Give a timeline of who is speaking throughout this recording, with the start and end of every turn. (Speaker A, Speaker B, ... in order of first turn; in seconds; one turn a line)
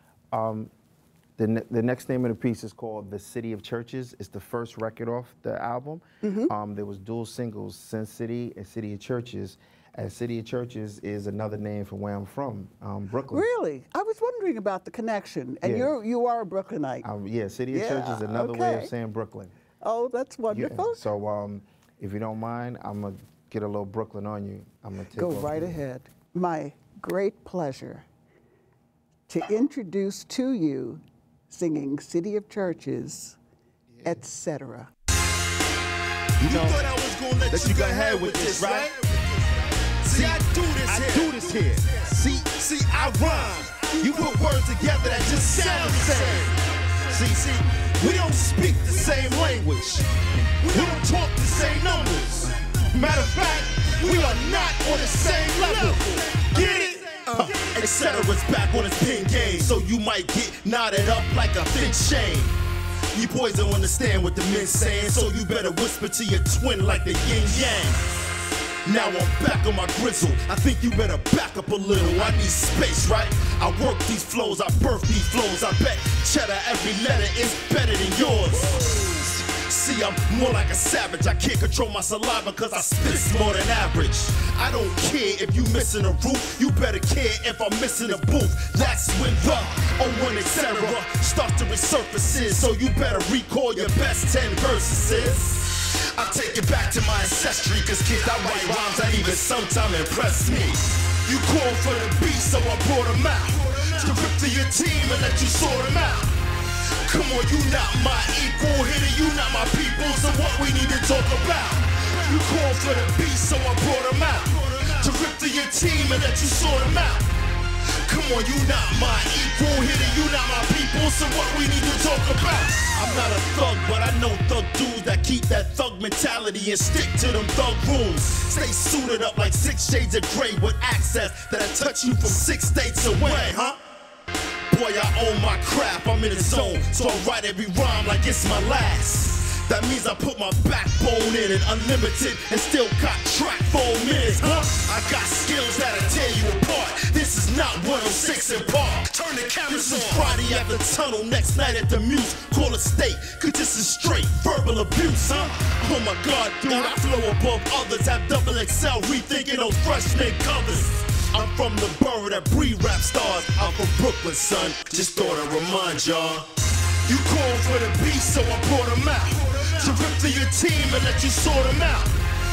Speaker A: 0.3-0.7
Speaker A: 1.4-13.5
Speaker B: 6.2-6.5
Speaker B: 13.3-17.1
Speaker A: 15.6-15.9
Speaker A: 17.0-19.6
Speaker B: 17.7-18.9
Speaker B: 19.8-21.0
Speaker A: 20.5-25.8
Speaker B: 25.1-28.1
Speaker B: 29.3-33.4
Speaker A: 33.9-34.2
Speaker B: 34.0-34.9
Speaker C: 36.4-39.2
Speaker A: 36.4-36.8
Speaker A: 37.5-38.9
Speaker C: 40.0-50.1
Speaker A: 40.1-42.5
Speaker A: 43.1-44.6
Speaker A: 45.5-46.5
Speaker C: 50.6-62.5
Speaker A: 50.7-51.0
Speaker A: 57.3-57.7
Speaker C: 63.1-68.1
Speaker C: 68.8-106.3
Speaker C: 107.0-117.3
Speaker C: 118.0-133.8
Speaker C: 134.7-166.5
Speaker C: 167.1-172.2